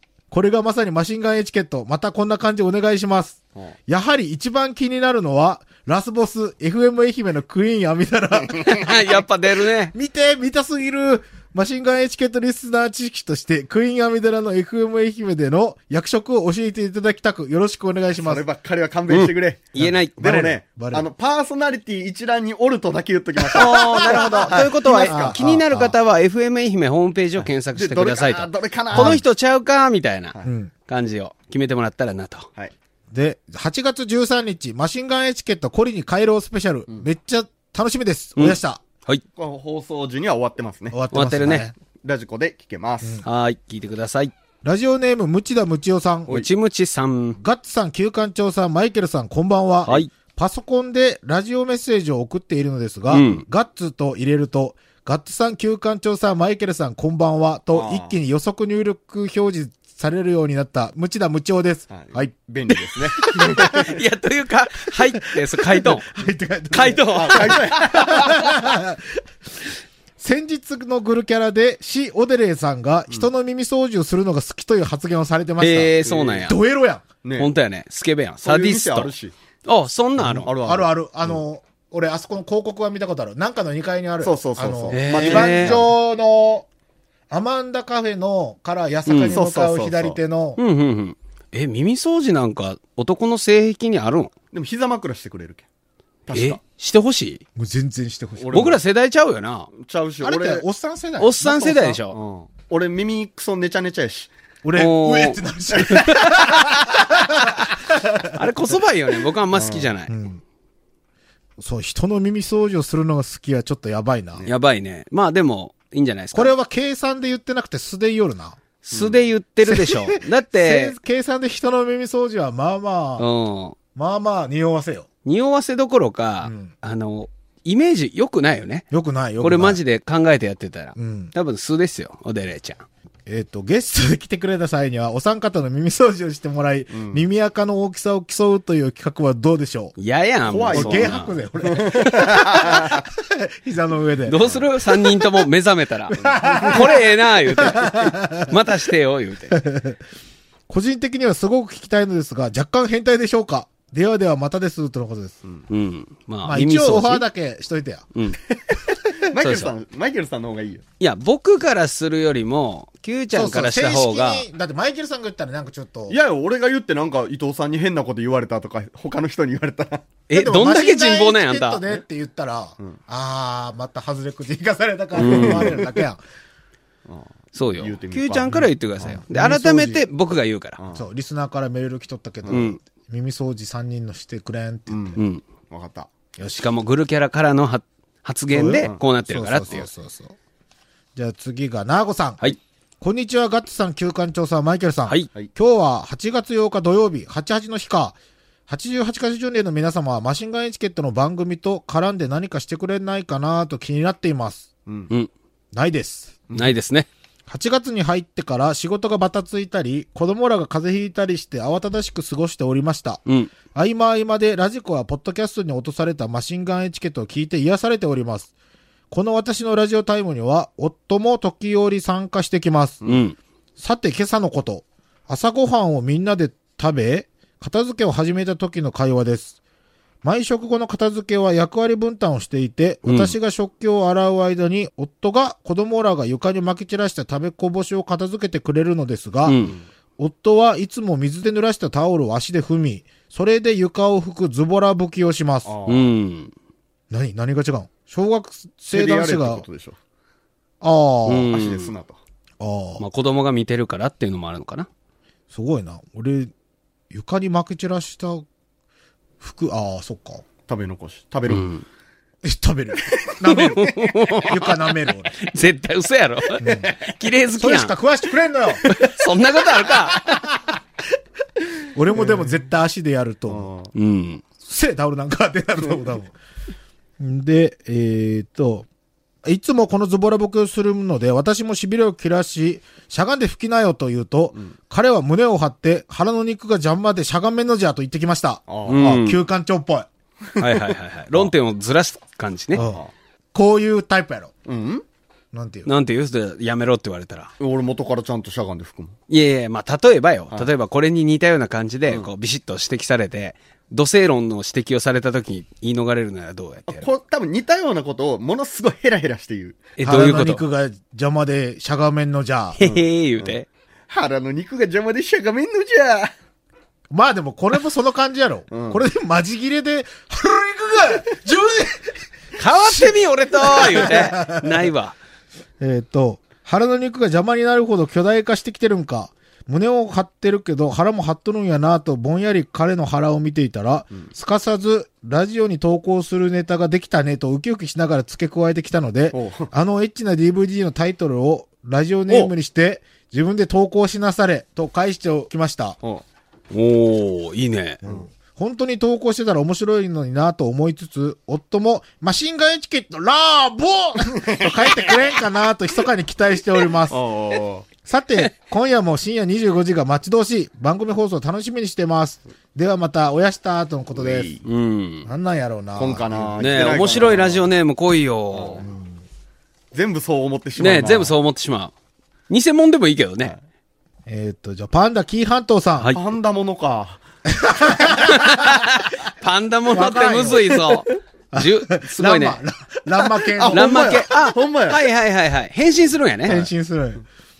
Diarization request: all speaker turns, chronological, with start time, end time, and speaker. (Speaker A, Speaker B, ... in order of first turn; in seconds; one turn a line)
Speaker A: 0.3-9.1
Speaker B: 8.5-8.8
Speaker C: 8.6-9.9
Speaker A: 9.9-18.4
Speaker B: 18.2-25.3
Speaker C: 19.1-20.1
Speaker A: 19.8-21.1
Speaker A: 23.4-26.0
Speaker C: 23.6-30.4
Speaker B: 27.8-29.2
Speaker A: 28.9-29.2
Speaker A: 30.4-30.7
Speaker C: 30.9-32.5
Speaker A: 33.1-38.8
Speaker C: 38.4-39.2
Speaker B: 39.4-41.0
Speaker A: 40.9-41.7
Speaker C: 41.1-41.7
Speaker B: 42.0-43.2
Speaker C: 43.2-44.3
Speaker A: 44.6-46.4
Speaker C: 46.3-47.4
Speaker A: 47.4-62.3
Speaker C: 49.9-50.1
Speaker C: 53.1-53.4
Speaker B: 57.7-58.1
Speaker B: 61.9-63.9
Speaker C: 63.2-66.1
Speaker A: 63.4-64.0
Speaker A: 65.4-69.2
Speaker C: 66.7-68.4
Speaker B: 67.1-68.4
Speaker A: 70.2-77.1
Speaker C: 75.6-76.6
Speaker B: 76.0-76.5
Speaker B: 77.2-77.5
Speaker C: 77.4-79.1
Speaker B: 78.4-79.3
Speaker C: 79.7-80.5
Speaker A: 80.2-86.7
Speaker B: 80.4-81.4
Speaker B: 84.2-85.9
Speaker C: 84.9-85.7
Speaker A: 87.3-90.6
Speaker C: 89.1-89.4
Speaker B: 89.3-90.2
Speaker C: 90.6-94.3
Speaker B: 94.5-95.7
Speaker B: 96.3-96.6
Speaker C: 96.3-97.4
Speaker A: 97.6-98.7
Speaker B: 98.4-98.8
Speaker C: 98.5-99.7
Speaker B: 99.7-100.7
Speaker A: 100.2-102.0
Speaker C: 101.2-102.2
Speaker B: 102.1-104.3
Speaker A: 104.6-108.4
Speaker C: 104.8-105.4
Speaker B: 105.7-106.3
Speaker C: 108.3-110.1
Speaker B: 109.5-109.9
Speaker A: 110.1-110.4
Speaker A: 111.6-114.4
Speaker C: 114.5-116.5
Speaker A: 116.3-118.6
Speaker C: 118.8-121.0
Speaker B: 118.9-119.2
Speaker A: 119.6-123.3
Speaker C: 123.2-123.8
Speaker A: 124.0-125.1
Speaker C: 125.2-128.8
Speaker A: 126.4-126.7
Speaker A: 128.9-129.8
Speaker C: 129.4-132.9
Speaker A: 131.0-131.3
Speaker A: 133.3-139.9
Speaker B: 136.9-137.3
Speaker C: 140.0-142.6
Speaker B: 140.5-143.1
Speaker A: 140.7-144.6
Speaker C: 144.3-149.6
Speaker B: 146.1-147.0
Speaker A: 146.2-148.6
Speaker A: 149.5-150.0
Speaker A: 150.7-155.4
Speaker C: 155.7-157.2
Speaker A: 156.4-158.1
Speaker B: 159.2-160.8
Speaker C: 159.4-159.7
Speaker C: 161.0-164.5
Speaker A: 163.3-166.2
Speaker B: 166.1-170.1
Speaker C: 170.3-171.8
Speaker A: 170.3-176.2
Speaker C: 175.2-175.8
Speaker B: 175.2-176.0
Speaker B: 177.1-178.6
Speaker C: 177.5-180.8
Speaker A: 178.5-180.0
Speaker B: 180.8-181.1
Speaker A: 180.9-185.2
Speaker B: 182.4-182.7
Speaker C: 182.5-182.8
Speaker B: 184.9-185.2
Speaker C: 185.2-185.4
Speaker B: 185.7-186.1
Speaker A: 186.4-186.7
Speaker C: 186.5-189.9
Speaker A: 188.5-190.4
Speaker A: 191.2-198.2
Speaker A: 198.7-204.7
Speaker B: 204.9-205.1
Speaker A: 205.7-206.4
Speaker C: 206.5-207.1
Speaker A: 207.5-218.5
Speaker C: 213.3-213.5
Speaker A: 219.1-223.1
Speaker C: 223.1-223.4
Speaker A: 223.8-229.6
Speaker A: 230.2-239.6
Speaker C: 233.1-233.4
Speaker C: 239.4-239.8
Speaker A: 240.2-245.7
Speaker B: 245.7-246.1
Speaker C: 245.9-246.5
Speaker A: 247.1-249.7
Speaker B: 248.9-250.0
Speaker A: 250.8-251.5
Speaker C: 251.3-251.9
Speaker B: 251.5-252.2
Speaker A: 252.6-253.0
Speaker C: 253.0-254.9
Speaker A: 255.5-256.5
Speaker A: 257.1-258.4
Speaker A: 259.4-260.4
Speaker B: 260.7-261.7
Speaker C: 261.5-261.9
Speaker A: 262.4-265.3
Speaker C: 263.5-267.9
Speaker A: 266.6-266.9
Speaker A: 267.6-269.1
Speaker C: 268.8-270.2
Speaker A: 269.9-270.8
Speaker A: 271.9-273.7
Speaker B: 272.2-272.5
Speaker B: 273.5-273.9
Speaker C: 273.9-274.4
Speaker A: 274.6-276.3
Speaker A: 277.2-278.9
Speaker A: 279.4-290.1
Speaker B: 288.7-289.2
Speaker C: 288.9-289.4
Speaker B: 290.5-291.5
Speaker C: 290.6-292.8
Speaker A: 292.7-293.0
Speaker B: 292.8-293.1
Speaker A: 293.5-294.5
Speaker B: 294.7-295.0
Speaker A: 295.5-295.9
Speaker C: 295.9-297.5
Speaker B: 297.6-299.2
Speaker C: 299.3-307.1
Speaker B: 306.9-309.9
Speaker C: 310.0-310.6
Speaker A: 310.0-312.8
Speaker C: 312.8-313.7
Speaker B: 312.8-313.6
Speaker B: 314.1-316.3
Speaker A: 317.1-322.2
Speaker B: 318.7-319.0
Speaker C: 322.6-325.2
Speaker A: 322.8-324.9
Speaker A: 325.8-346.0
Speaker B: 339.3-339.7
Speaker C: 346.7-348.0
Speaker A: 348.0-357.2
Speaker B: 354.3-355.2
Speaker B: 357.1-357.9
Speaker A: 358.0-364.5
Speaker B: 364.1-364.6
Speaker C: 364.6-365.3
Speaker A: 365.2-367.1
Speaker B: 366.0-367.7
Speaker C: 366.6-368.8
Speaker B: 368.5-368.9
Speaker A: 368.8-369.2
Speaker B: 369.9-371.4
Speaker C: 370.8-371.9
Speaker C: 372.5-373.5
Speaker A: 374.3-376.1
Speaker B: 376.1-377.2
Speaker A: 377.5-378.8
Speaker C: 378.1-382.6
Speaker A: 379.9-380.8
Speaker A: 381.5-384.2
Speaker B: 383.6-385.1
Speaker C: 383.7-386.6
Speaker A: 386.5-387.2